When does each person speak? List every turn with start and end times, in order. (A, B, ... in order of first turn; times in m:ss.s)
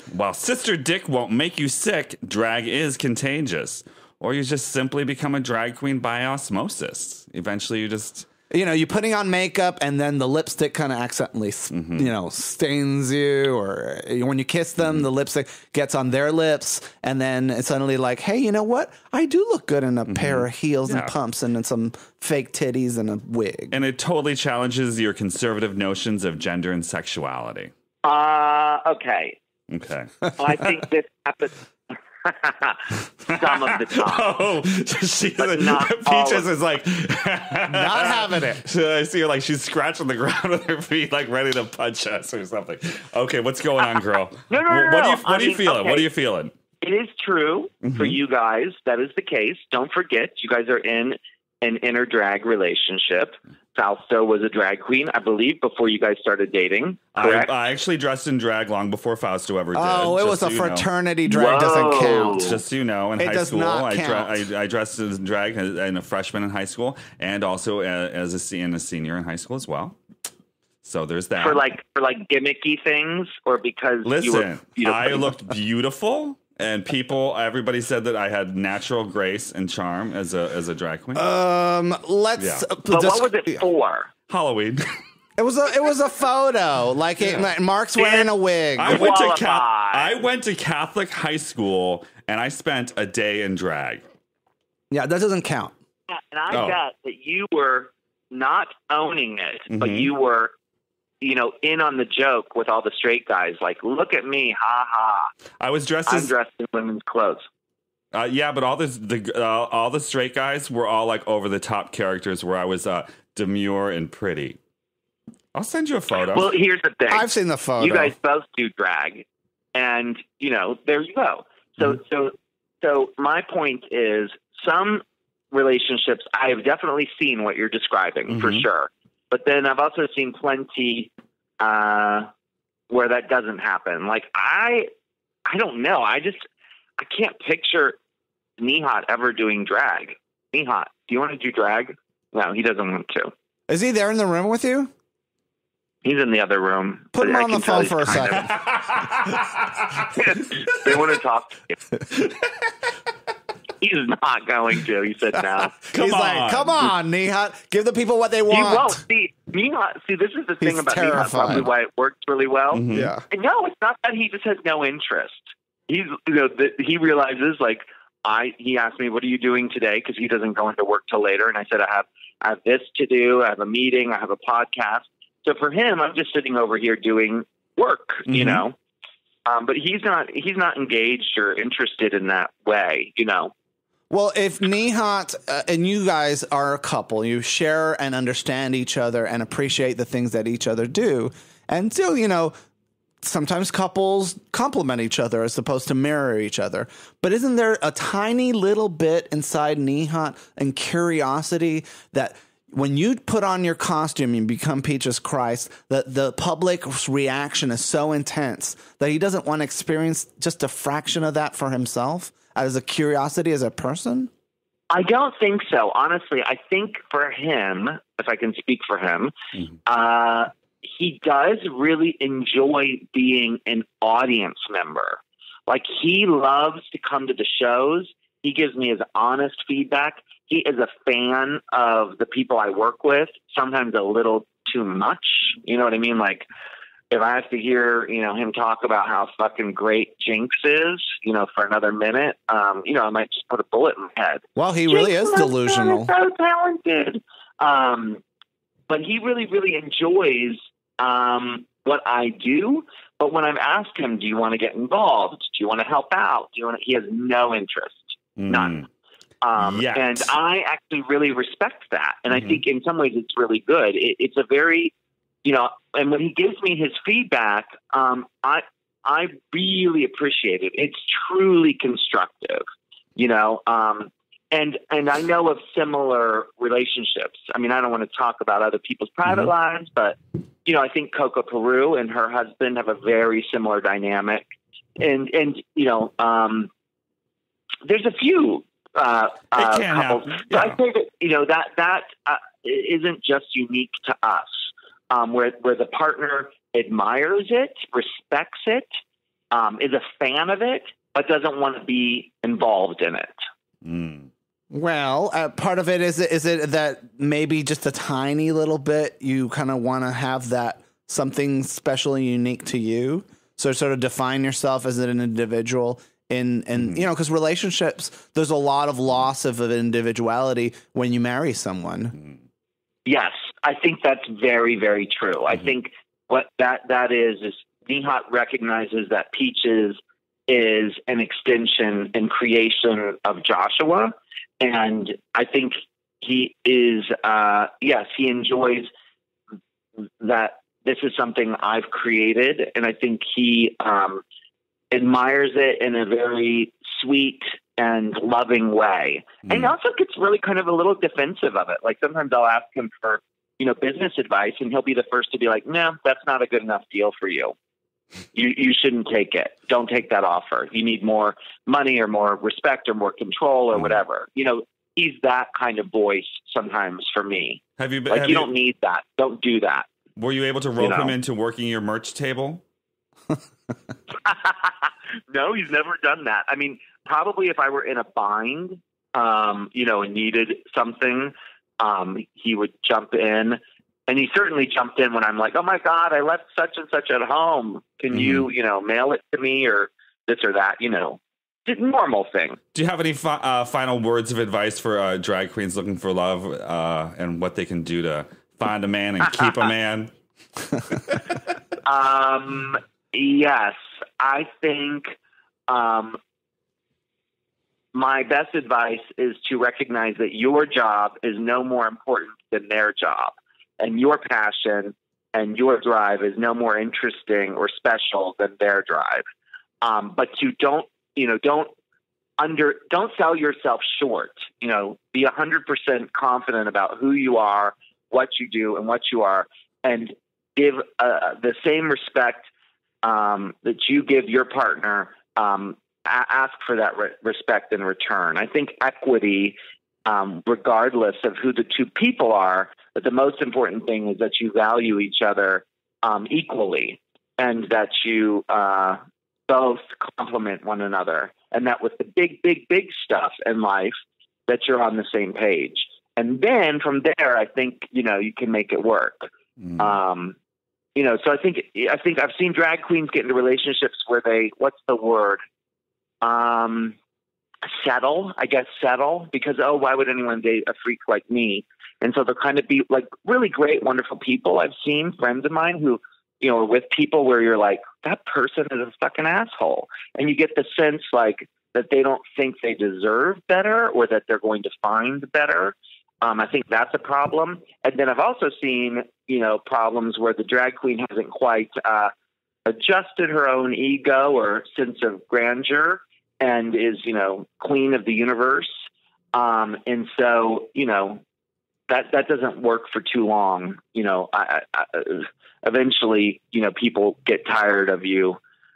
0:00.1-0:08.3 A
0:08.5-0:23.7 B
0:11.7-0:12.1 A
0:20.1-0:21.1 A
0:23.7-0:27.7 A
0:28.0-0:29.4 C
0:29.7-0:30.3 A
0:30.4-0:34.3 C
0:33.3-0:46.5 A
0:35.4-0:36.5 C
0:37.7-0:38.6 B
0:44.5-0:46.1 C
0:46.8-0:57.5 C
0:47.8-0:48.2 A
0:57.1-1:00.9 A
0:59.7-1:02.5 B
1:01.2-1:02.6 C
1:02.3-1:10.0 A
1:03.2-1:04.3 B
1:10.8-1:11.6 A
1:11.4-1:15.3 C
1:14.0-1:21.2 A
1:21.1-1:23.5 B
1:22.4-1:22.7 A
1:22.9-1:24.1 C
1:24.3-1:25.0 A
1:25.4-1:29.1 B
1:28.0-1:28.2 C
1:28.8-1:34.0 A
1:28.8-1:30.2 C
1:34.9-1:35.7 B
1:36.1-1:40.5 C
1:36.5-1:36.8 A
1:39.7-1:40.1 A
1:41.2-1:45.3 C
1:45.6-1:46.3 A
1:46.1-1:47.4 C
1:48.1-1:54.6 A
1:55.5-1:56.5 A
1:56.3-2:12.3 C
1:57.1-1:58.1 B
2:08.3-2:08.6 A
2:12.9-2:14.9 C
2:15.4-2:16.4 C
2:17.0-2:18.0 C
2:18.6-2:23.3 C
2:23.7-2:24.9 B
2:26.0-2:28.5 C
2:27.2-2:28.5 B
2:28.3-2:29.7 A
2:30.1-2:31.8 C
2:33.8-2:35.7 C
2:35.9-2:39.0 B
2:35.9-2:36.9 A
2:38.5-2:58.8 C
2:40.6-2:41.6 B
2:42.7-2:43.1 A
2:42.9-2:43.2 B
2:58.3-2:58.6 A
2:59.4-3:03.5 C
3:04.1-3:12.5 B
3:13.2-3:34.3 B
3:34.9-3:39.3 C
3:39.8-3:56.4 C
3:57.1-4:08.2 C
4:04.6-4:06.1 B
4:08.9-4:18.8 C
4:18.4-4:18.8 A
4:19.4-4:24.9 C
4:19.6-4:20.3 A
4:25.4-4:32.6 C
4:33.2-4:44.4 C
4:45.0-4:46.7 C
4:47.8-4:54.5 C
4:49.6-4:50.8 A
4:55.1-4:58.9 C
4:59.5-5:03.4 C
5:03.8-5:04.3 A
5:04.7-5:22.2 B
5:23.0-5:38.9 C
5:40.2-5:44.2 C
5:44.9-5:57.5 C
5:49.5-5:49.7 A
5:58.3-6:09.9 C
6:07.8-6:08.5 A
6:10.2-6:12.6 A
6:10.8-6:11.1 C
6:14.2-6:32.6 C
6:28.1-6:28.5 A
6:32.7-6:40.1 A
6:40.9-6:41.2 A
6:41.8-6:45.1 C
6:45.7-6:46.2 C
6:47.9-6:59.2 C
6:59.8-7:01.7 C
7:02.4-7:12.5 C
7:13.0-7:34.0 C
7:34.5-7:40.4 C
7:41.0-7:45.4 C
7:46.2-7:47.0 C
7:47.6-8:12.1 C
8:12.6-8:18.7 C
8:19.3-8:21.2 C
8:21.9-8:28.4 C